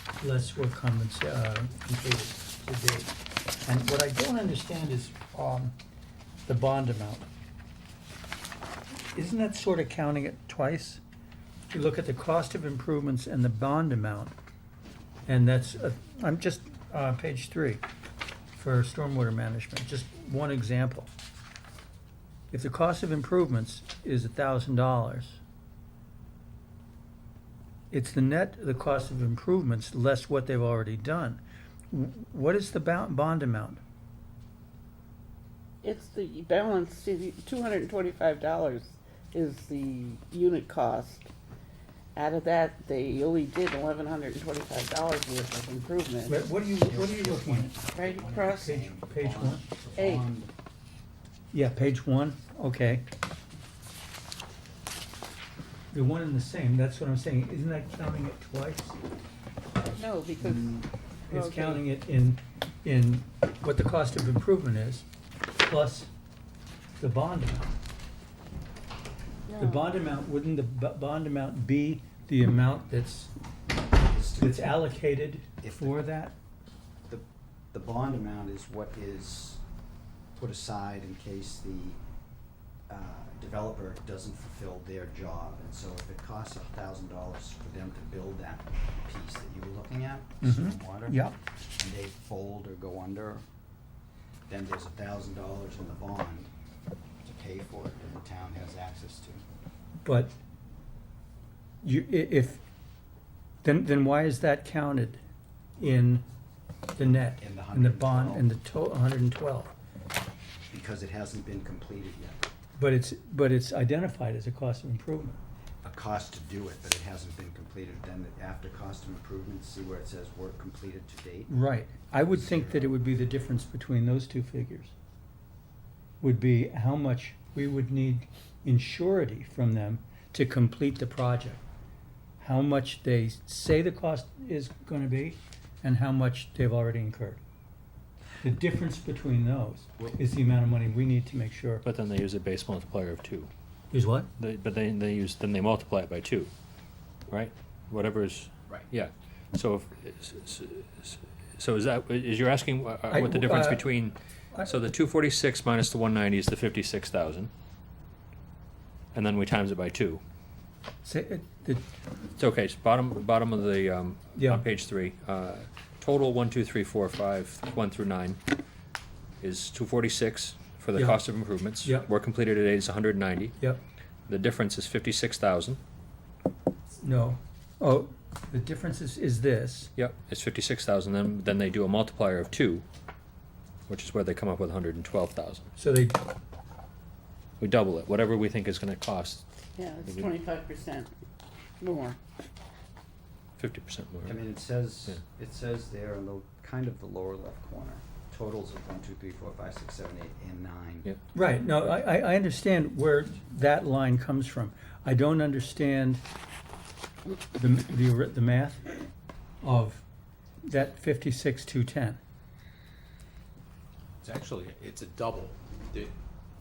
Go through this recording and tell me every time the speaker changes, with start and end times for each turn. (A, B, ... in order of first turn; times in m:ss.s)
0:00.2-0:03.1 A
0:03.7-0:05.8 A
0:06.5-0:07.3 A
0:09.1-0:11.0 A
0:11.7-0:14.3 A
0:15.3-0:17.8 A
0:18.6-0:21.1 A
0:22.5-0:25.4 A
0:27.9-0:33.8 A
0:35.8-0:41.3 B
0:42.2-0:46.4 B
0:46.3-0:47.7 A
0:46.5-0:50.5 C
0:47.9-0:48.8 B
0:48.6-0:49.6 A
0:50.0-0:50.3 B
0:51.5-0:53.0 A
0:55.9-0:59.0 A
1:00.0-1:01.8 B
1:01.3-1:05.1 A
1:05.6-1:06.1 A
1:07.0-1:07.7 A
1:09.5-1:10.0 B
1:09.6-1:13.3 A
1:14.0-1:14.8 C
1:14.4-1:16.4 A
1:15.6-1:16.0 C
1:17.1-1:19.6 C
1:20.4-1:22.0 C
1:22.9-1:31.2 C
1:30.4-1:31.4 A
1:31.8-1:33.4 C
1:34.5-1:36.5 C
1:37.2-1:39.4 C
1:40.0-1:40.4 A
1:41.8-1:42.6 A
1:43.6-1:45.2 A
1:45.8-1:46.2 A
1:47.0-1:49.7 A
1:47.4-1:48.5 C
1:50.7-1:52.5 C
1:52.8-1:55.4 A
1:55.8-2:01.5 C
2:01.5-2:04.9 A
2:02.3-2:03.0 C
2:06.2-2:11.6 A
2:12.4-2:17.4 A
2:18.4-2:21.9 A
2:21.8-2:23.5 D
2:23.9-2:24.3 A
2:24.4-2:26.5 D
2:27.3-2:37.5 D
2:33.1-2:33.9 A
2:39.1-2:40.2 D
2:41.0-2:41.8 A
2:42.4-2:48.4 D
2:44.4-2:44.6 A
2:49.4-2:53.6 D
2:51.0-2:51.2 A
2:51.8-2:52.1 A
2:54.3-2:55.8 D
2:57.0-2:59.9 A
3:00.0-3:02.8 D
3:03.9-3:05.7 D
3:05.8-3:06.2 A
3:07.6-3:09.5 D
3:09.8-3:11.1 B
3:10.0-3:10.3 D
3:11.8-3:12.2 B
3:13.6-3:14.4 D
3:14.2-3:21.1 C
3:21.3-3:26.2 A
3:27.5-3:29.0 A
3:29.6-3:30.0 A
3:30.6-3:32.2 A
3:34.2-3:36.2 E